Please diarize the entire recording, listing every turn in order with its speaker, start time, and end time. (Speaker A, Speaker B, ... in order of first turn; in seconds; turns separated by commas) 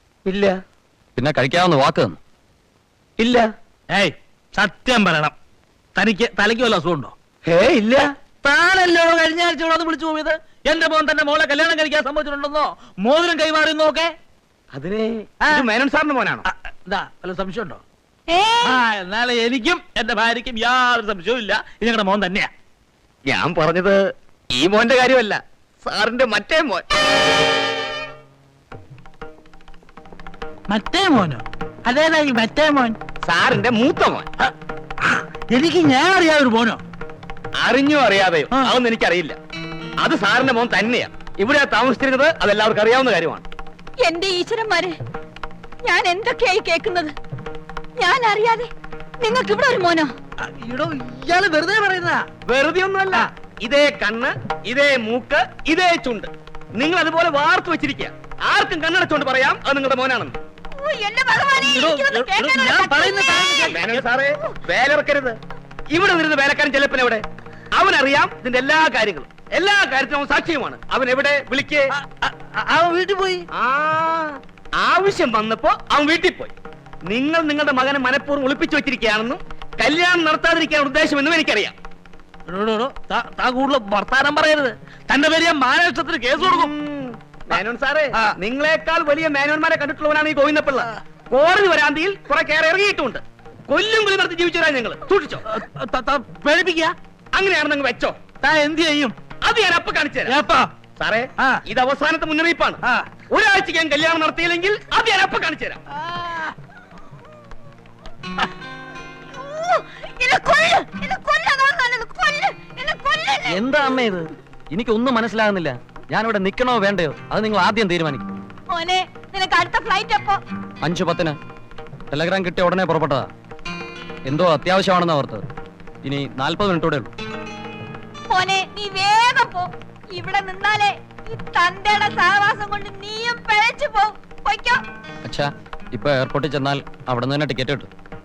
Speaker A: 1.2-2.2, Speaker B: 3.2-3.5, Speaker C: 3.9-5.3, Speaker C: 6.0-7.1, Speaker B: 7.5-8.1, Speaker C: 8.4-14.1, Speaker B: 14.7-16.4, Speaker C: 15.4-15.7, Speaker C: 16.4-17.8, Speaker D: 18.3-18.8, Speaker C: 18.6-22.5, Speaker B: 23.3-24.0, Speaker B: 24.5-26.9, Speaker C: 30.7-33.0, Speaker B: 33.2-34.3, Speaker C: 35.1-36.8, Speaker B: 37.6-39.4, Speaker B: 40.0-43.4, Speaker D: 44.0-45.0, Speaker D: 45.8-47.1, Speaker D: 48.0-48.7, Speaker D: 49.2-50.1, Speaker C: 50.5-52.3, Speaker B: 52.5-60.4, Speaker D: 60.8-63.8, Speaker C: 61.6-64.1, Speaker B: 63.7-65.4, Speaker B: 65.9-71.8, Speaker C: 72.0-73.5, Speaker B: 73.5-76.5, Speaker B: 77.1-81.8, Speaker C: 82.5-86.7, Speaker B: 86.4-95.4, Speaker C: 95.5-96.9, Speaker B: 97.3-98.2, Speaker C: 98.4-99.2, Speaker B: 99.4-100.4, Speaker C: 100.2-100.7, Speaker B: 101.0-105.8, Speaker C: 102.8-103.1, Speaker C: 106.0-106.5, Speaker D: 109.3-113.6, Speaker A: 113.5-118.3, Speaker D: 118.7-120.4, Speaker A: 120.8-121.4, Speaker A: 122.1-123.3, Speaker A: 124.3-125.5, Speaker A: 126.0-127.1, Speaker D: 128.3-134.8, Speaker A: 135.2-137.9